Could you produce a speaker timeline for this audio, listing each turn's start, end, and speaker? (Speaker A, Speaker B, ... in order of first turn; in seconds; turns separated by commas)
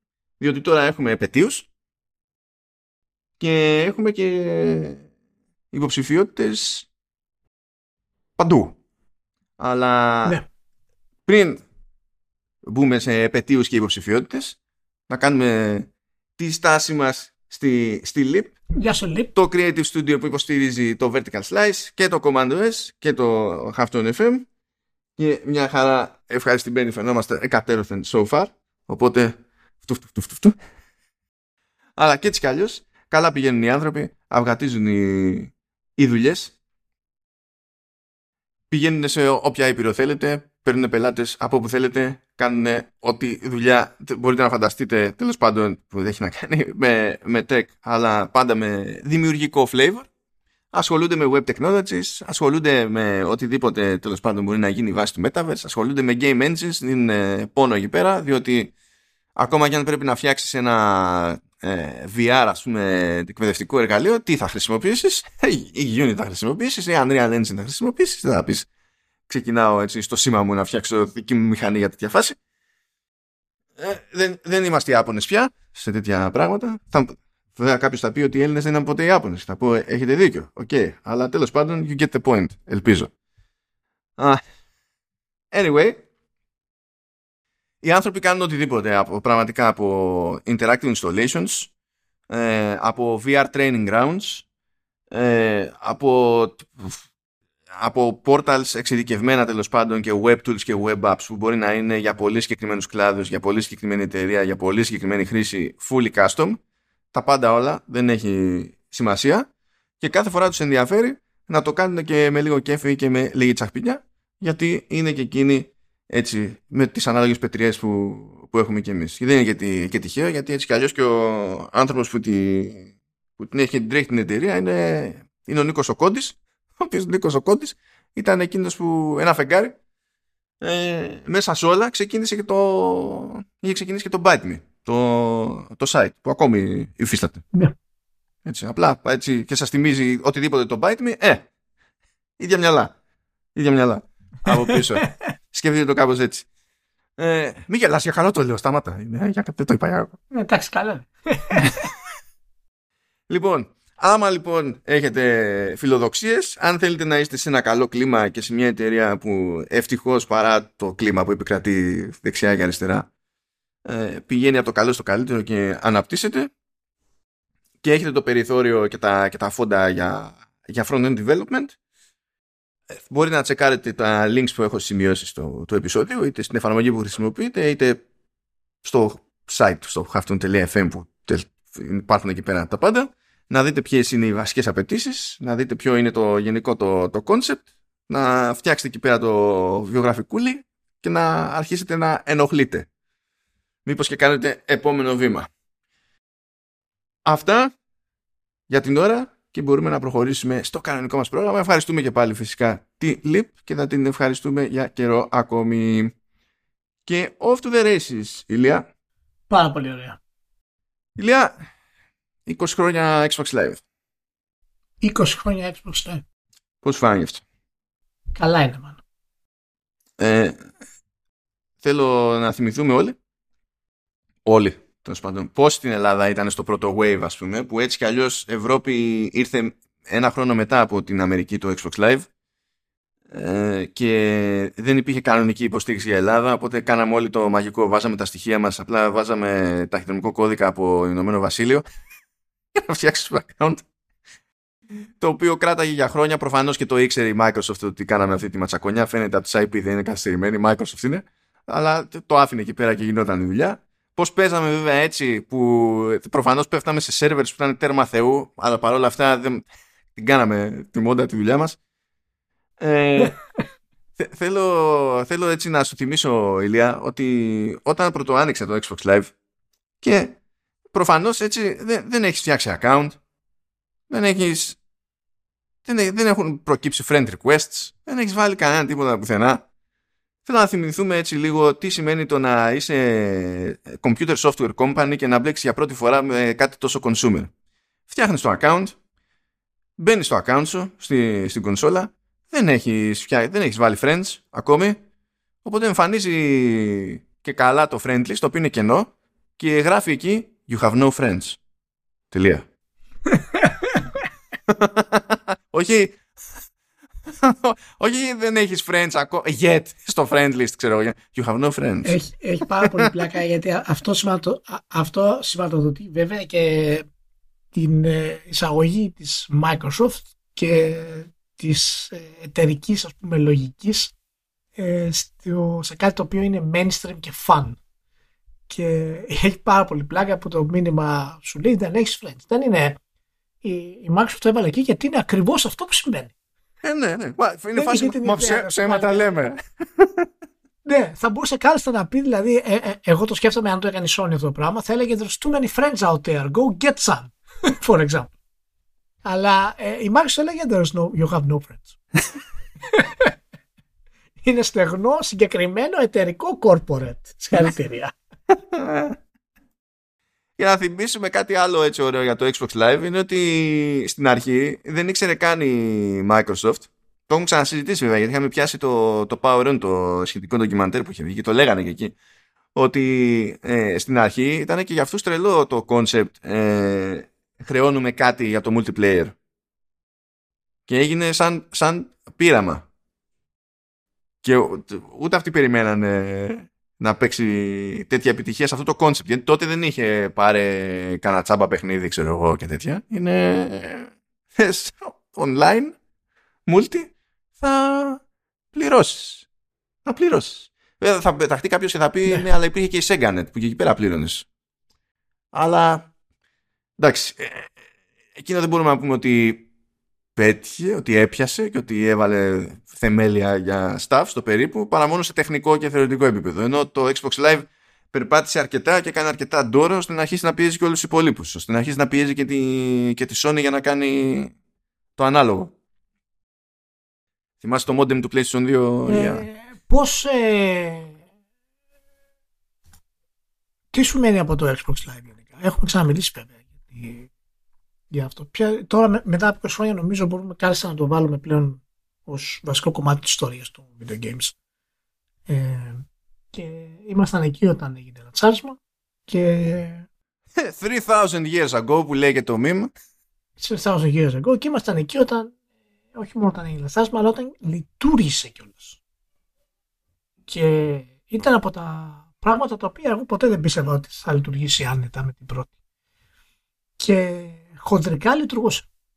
Speaker A: 0.4-1.7, Speaker A: 3.4-5.0, Speaker A: 5.7-6.9, Speaker A: 8.4-8.8, Speaker A: 9.6-10.4, Speaker A: 11.3-11.6, Speaker A: 12.7-14.6, Speaker A: 15.1-18.6, Speaker B: 18.8-19.3, Speaker A: 19.3-24.5, Speaker A: 25.2-30.6, Speaker A: 32.0-36.5, Speaker A: 38.7-50.1, Speaker A: 50.7-58.7, Speaker A: 59.4-68.7, Speaker A: 69.3-72.4, Speaker A: 73.8-83.1, Speaker A: 85.5-86.0, Speaker A: 87.8-91.7, Speaker A: 92.3-94.5, Speaker A: 95.1-97.0, Speaker A: 97.7-106.6, Speaker A: 107.1-109.5, Speaker A: 110.0-129.8, Speaker A: 130.6-137.4, Speaker A: 138.4-141.5, Speaker A: 142.4-142.9, Speaker A: 143.6-146.5, Speaker B: 144.7-145.1, Speaker A: 147.2-150.2, Speaker B: 150.3-151.8, Speaker A: 153.3-163.1, Speaker A: 163.9-166.5, Speaker A: 167.8-171.8, Speaker A: 172.9-178.0, Speaker A: 178.8-192.9, Speaker A: 193.8-195.5, Speaker A: 197.2-197.7, Speaker A: 198.7-206.1, Speaker A: 207.1-208.9, Speaker B: 209.5-210.2, Speaker A: 211.2-211.5, Speaker A: 212.5-213.8, Speaker B: 215.0-216.2, Speaker A: 216.8-217.4, Speaker B: 218.3-219.0, Speaker A: 220.2-220.6, Speaker A: 221.8-223.2, Speaker A: 224.4-232.3, Speaker A: 233.3-241.8, Speaker A: 242.8-243.8, Speaker A: 245.2-259.6, Speaker A: 260.1-261.8, Speaker A: 262.8-263.4, Speaker A: 264.2-269.3, Speaker A: 270.0-270.4, Speaker A: 270.9-273.2, Speaker A: 274.1-274.8, Speaker A: 275.9-279.6, Speaker A: 280.5-287.5, Speaker A: 288.1-288.9, Speaker A: 290.0-295.0, Speaker A: 295.6-301.6, Speaker A: 302.3-302.6, Speaker B: 303.3-304.1, Speaker A: 304.7-306.2, Speaker A: 307.3-312.2, Speaker B: 312.1-317.1, Speaker A: 312.8-313.1, Speaker B: 317.7-324.1, Speaker B: 324.8-327.8, Speaker B: 328.7-333.0, Speaker B: 333.6-336.3, Speaker A: 336.8-340.3, Speaker B: 337.8-339.4, Speaker B: 340.9-348.3, Speaker B: 349.2-352.0, Speaker B: 352.9-353.3, Speaker B: 354.4-358.1, Speaker A: 358.7-359.1, Speaker A: 360.6-372.1, Speaker A: 372.8-379.4, Speaker A: 380.9-382.9, Speaker A: 384.4-395.9, Speaker A: 396.7-398.2, Speaker A: 398.7-399.5, Speaker A: 400.1-404.5, Speaker A: 405.5-406.1, Speaker A: 407.0-407.7, Speaker A: 408.4-409.7, Speaker A: 410.4-424.5, Speaker A: 425.2-425.7, Speaker A: 427.6-429.4, Speaker B: 429.1-431.2, Speaker B: 433.9-437.3, Speaker B: 438.1-444.6, Speaker B: 445.5-450.1, Speaker A: 450.6-452.9, Speaker B: 453.6-455.5, Speaker B: 456.1-459.0, Speaker B: 460.5-465.7, Speaker B: 467.0-468.9